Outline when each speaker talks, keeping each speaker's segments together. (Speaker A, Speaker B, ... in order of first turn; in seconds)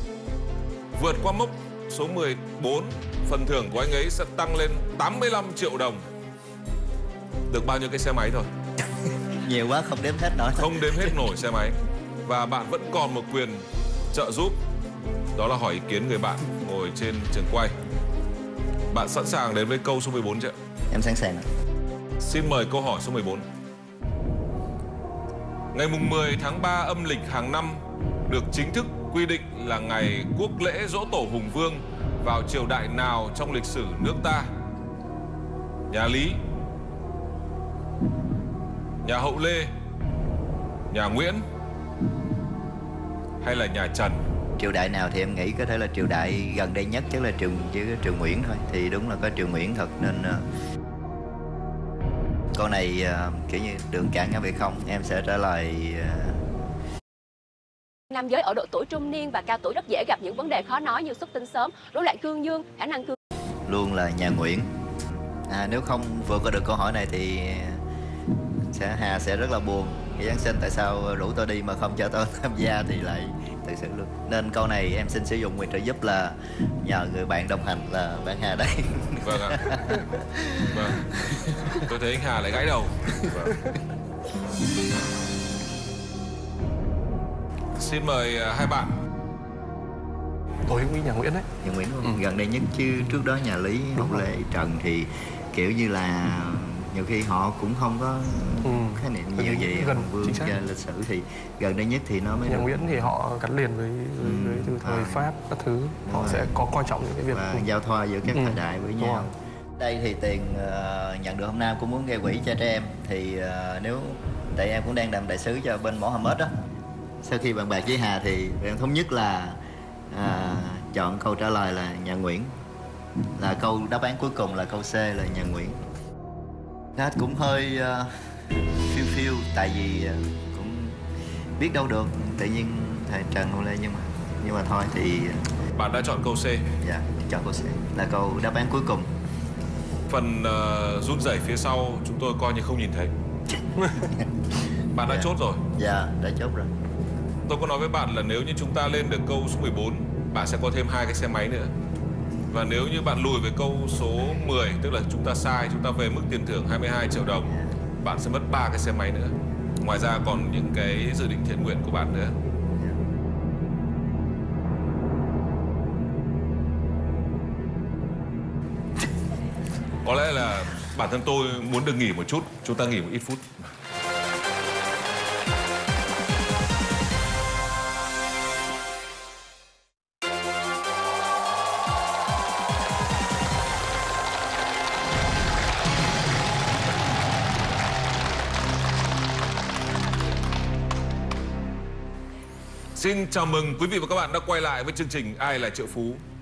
Speaker A: 0.9-6.0, 7.5-8.5, 10.5-14.6, 15.4-17.7, 18.9-20.5, 22.2-23.4, 25.7-34.5, 35.9-36.4, 39.0-39.7, 40.9-41.4, 43.4-44.2, 79.2-79.7, 80.7-81.1, 81.7-83.6, 87.8-88.9, 135.8-136.7, 140.1-143.1, 144.9-145.6, 147.5-151.7, 152.5-162.3, 170.0-173.5, 192.9-196.2
Speaker B: 9.3-11.2, 20.9-21.4, 44.6-50.4, 52.5-56.5, 63.7-67.8, 68.7-81.6, 91.6-103.1, 104.2-105.3, 106.0-106.5, 107.3-116.5, 117.2-122.5, 123.4-125.8, 126.9-131.0, 131.6-135.5, 136.8-139.1, 144.0-144.3, 145.1-146.7, 157.5-157.8, 162.7-163.0
Speaker C: 58.1-63.2
Speaker D: 90.7-91.5, 98.6-100.6, 102.5-107.7, 108.3-109.2